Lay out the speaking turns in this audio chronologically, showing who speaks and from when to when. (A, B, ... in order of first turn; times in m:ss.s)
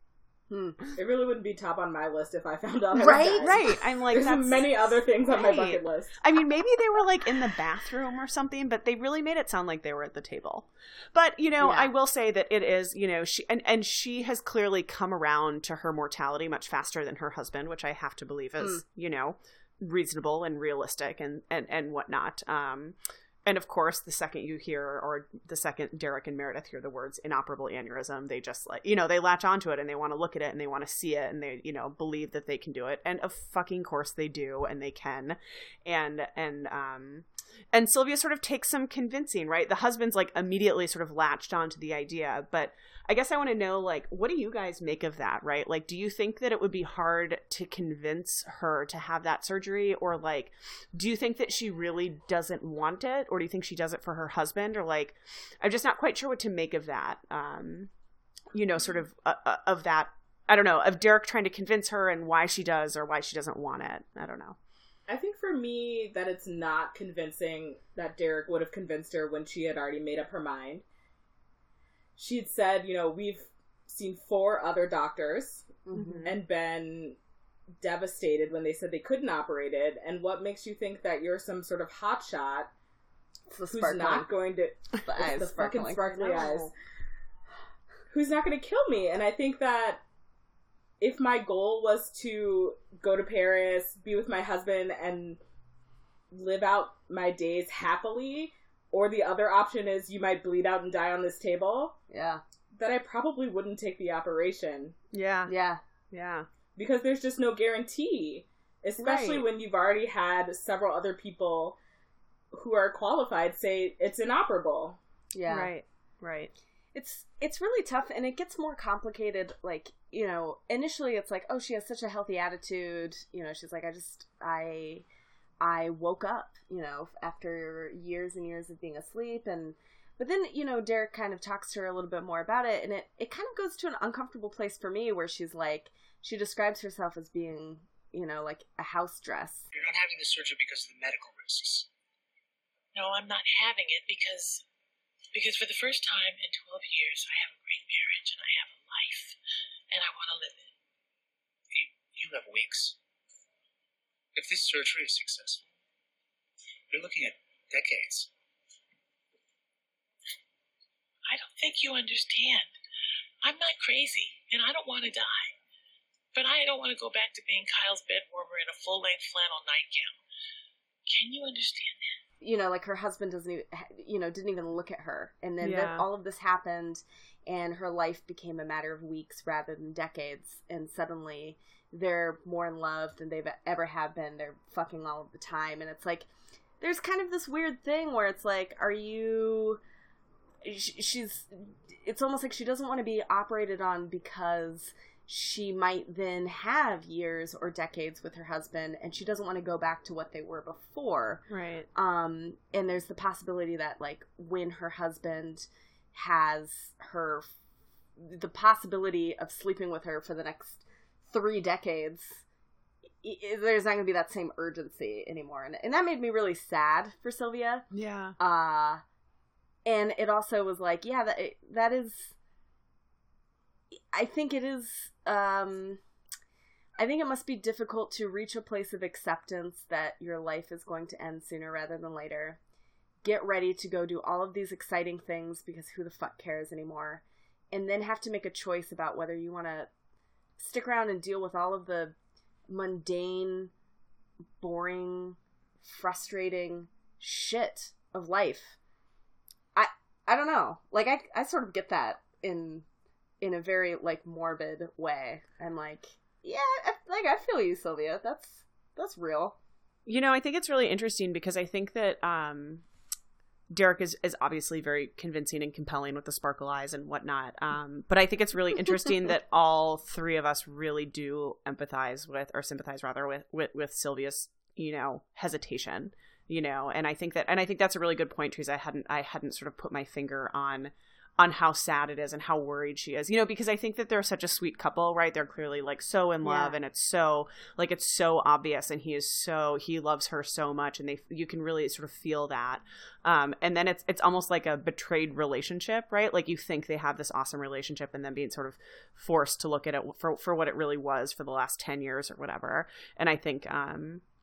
0:00.5-0:00.8 A
0:01.0-0:06.2 B
0:02.9-0:03.6 A
0:03.0-0:57.9 C
0:11.6-0:11.9 A
0:58.5-1:04.6 C
1:05.1-1:10.8 B
1:12.2-1:17.2 B
1:15.9-1:16.3 A
1:15.9-1:16.3 C
1:17.8-1:22.7 B
1:23.5-1:24.3 A
1:23.7-1:26.7 B
1:25.0-1:26.4 A
1:26.2-1:26.7 C
1:28.1-1:30.0 B
1:31.0-1:35.4 B
1:36.3-1:42.0 B
1:42.1-1:42.4 A
1:42.7-1:44.9 B
1:45.1-1:45.5 C
1:45.4-1:45.8 A
1:46.1-1:46.5 C
1:46.8-1:51.8 B
1:49.0-1:49.5 C
1:52.5-1:55.0 B
1:55.3-1:55.7 A
1:55.4-1:56.5 C
1:56.9-2:05.0 A
2:05.6-2:19.7 A
2:19.7-2:21.9 D
2:22.9-2:24.6 E
2:25.3-2:29.4 E
2:29.9-2:30.7 E
2:31.7-2:33.0 D
2:34.3-2:35.6 D
2:36.9-2:38.3 D
2:41.3-2:42.7 E
2:43.4-2:45.5 E
2:46.3-2:50.2 E
2:51.1-2:52.2 E
2:52.4-3:06.3 A
2:55.6-2:56.0 C
3:06.8-3:09.8 A
3:10.6-3:21.4 A
3:21.5-3:21.9 C
3:21.9-3:27.5 A
3:28.2-3:32.4 A
3:33.2-3:37.8 A
3:37.9-3:38.4 C
3:38.4-3:39.0 A
3:39.8-3:42.3 A
3:43.9-3:46.0 A
3:47.0-3:52.6 A
3:53.2-3:59.9 A
4:00.6-4:02.1 A
4:02.7-4:03.7 A
4:04.6-4:08.8 A
4:09.7-4:12.8 A
4:13.4-4:19.6 A
4:20.0-4:22.8 C
4:23.7-5:04.2 C
4:46.4-4:46.8 A